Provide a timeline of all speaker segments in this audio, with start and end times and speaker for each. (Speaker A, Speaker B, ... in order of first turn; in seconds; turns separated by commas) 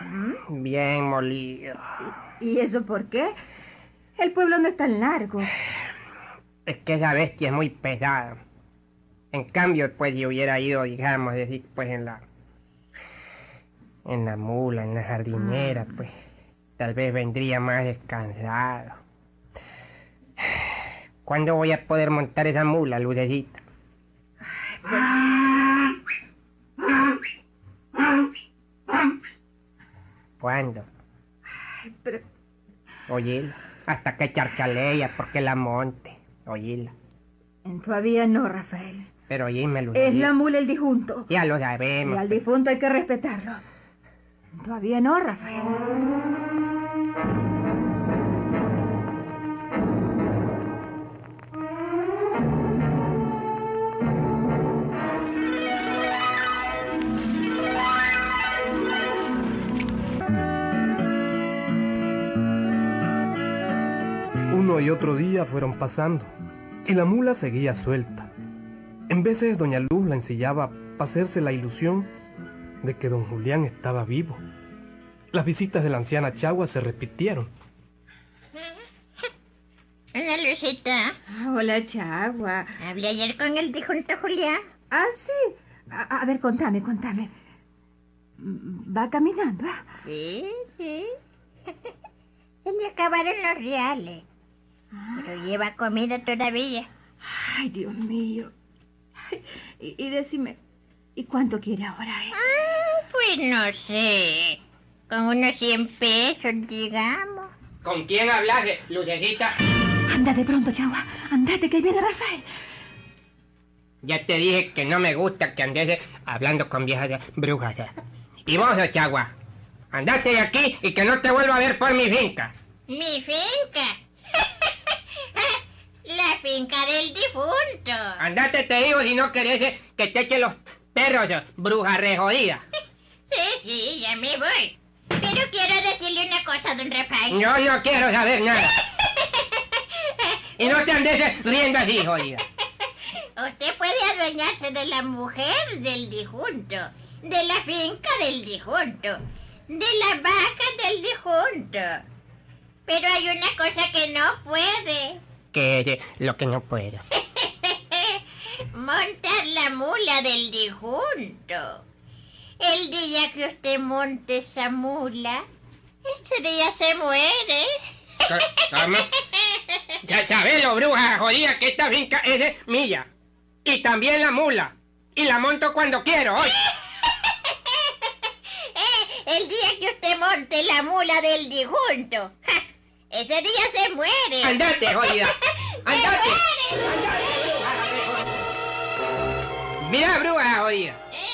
Speaker A: 0.5-1.8, Speaker B: 2.4-3.3, Speaker B: 4.2-5.5, Speaker A: 6.7-8.4, Speaker A: 9.3-12.2, Speaker A: 14.1-16.1, Speaker A: 16.8-19.0, Speaker A: 21.3-23.6, Speaker B: 24.9-25.1, Speaker A: 30.4-30.9, Speaker B: 31.9-32.2, Speaker A: 33.1-36.9, Speaker B: 37.7-39.0, Speaker A: 39.3-40.4, Speaker B: 40.0-41.2, Speaker A: 41.3-42.4, Speaker B: 42.1-43.6, Speaker B: 44.6-45.8, Speaker C: 64.5-66.3, Speaker C: 66.9-68.3, Speaker C: 69.1-72.1, Speaker C: 72.8-74.4, Speaker C: 75.3-77.5, Speaker D: 80.2-81.1, Speaker B: 81.4-82.6, Speaker D: 82.8-84.6, Speaker B: 84.9-85.4, Speaker B: 86.0-87.3, Speaker B: 88.5-89.7, Speaker D: 90.0-91.2, Speaker D: 92.7-94.2, Speaker D: 95.2-96.9, Speaker B: 97.3-98.5, Speaker B: 99.3-100.6, Speaker B: 101.2-102.3, Speaker D: 102.3-104.6, Speaker D: 105.1-107.5, Speaker E: 107.8-109.5, Speaker B: 110.1-112.4, Speaker E: 114.0-117.9, Speaker E: 118.5-119.3, Speaker E: 119.9-122.5, Speaker D: 122.9-124.7, Speaker D: 125.4-128.2, Speaker E: 128.2-132.6, Speaker D: 133.3-137.4, Speaker E: 137.3-138.8, Speaker D: 139.2-140.4, Speaker E: 140.6-142.4, Speaker D: 143.4-149.2, Speaker D: 149.7-152.0, Speaker D: 152.9-155.2, Speaker E: 155.5-157.0, Speaker D: 157.2-158.2, Speaker D: 158.7-161.8, Speaker D: 162.6-165.4, Speaker D: 166.1-167.8, Speaker E: 168.3-169.1, Speaker D: 168.5-169.8, Speaker E: 170.1-173.1, Speaker E: 173.7-176.7, Speaker D: 177.5-177.9, Speaker D: 178.6-184.6, Speaker E: 184.4-188.4, Speaker D: 185.9-187.6, Speaker E: 189.8-191.0